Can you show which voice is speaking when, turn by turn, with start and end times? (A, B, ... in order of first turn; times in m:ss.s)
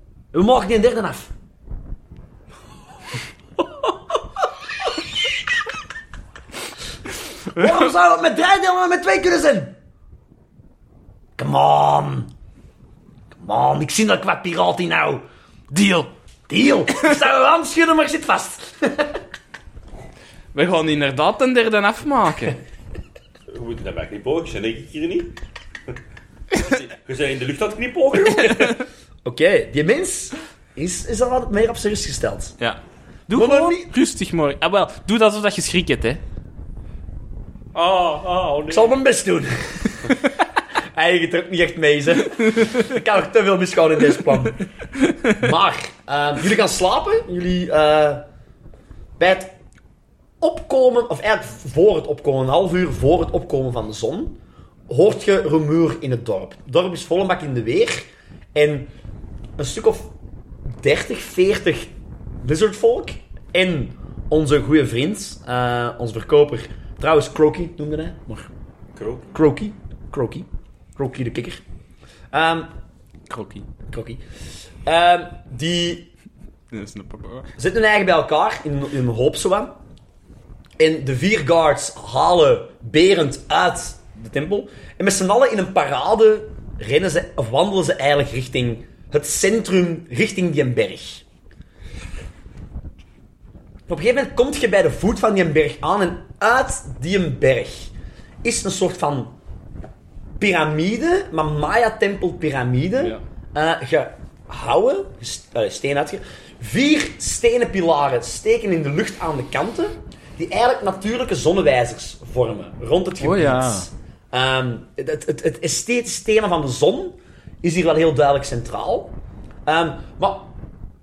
0:00.3-0:01.3 A
0:07.5-0:09.7 A
0:11.4-0:12.3 A
0:13.3-0:15.2 A
0:15.7-0:16.1 B
0:16.5-0:19.2 A
0:20.5-0:22.6 B
0:23.5-0:25.3 C
0:26.5-0:28.8 C
0:28.4-0:28.8 B
0:29.2-0:32.6 A
0:32.6-0:36.2 B
0:33.3-0:33.9 A
0:37.7-0:38.9 C
0:38.7-0:40.2 A
0:40.9-0:44.6 A
0:45.3-0:48.2 A
0:49.2-0:49.5 A
0:50.4-0:58.9 A
0:59.6-1:00.1 A
1:00.7-1:08.5 A
1:09.0-1:09.3 C
1:09.3-1:11.6 A
1:12.3-1:12.7 A
1:13.3-1:13.7 B
1:13.9-1:14.2 A
1:14.8-1:16.1 A
1:16.7-1:17.5 B
1:17.6-1:19.8 A
1:20.8-1:31.2 A
1:33.9-1:39.4 A
1:40.4-2:00.5 A
1:53.2-1:53.9 B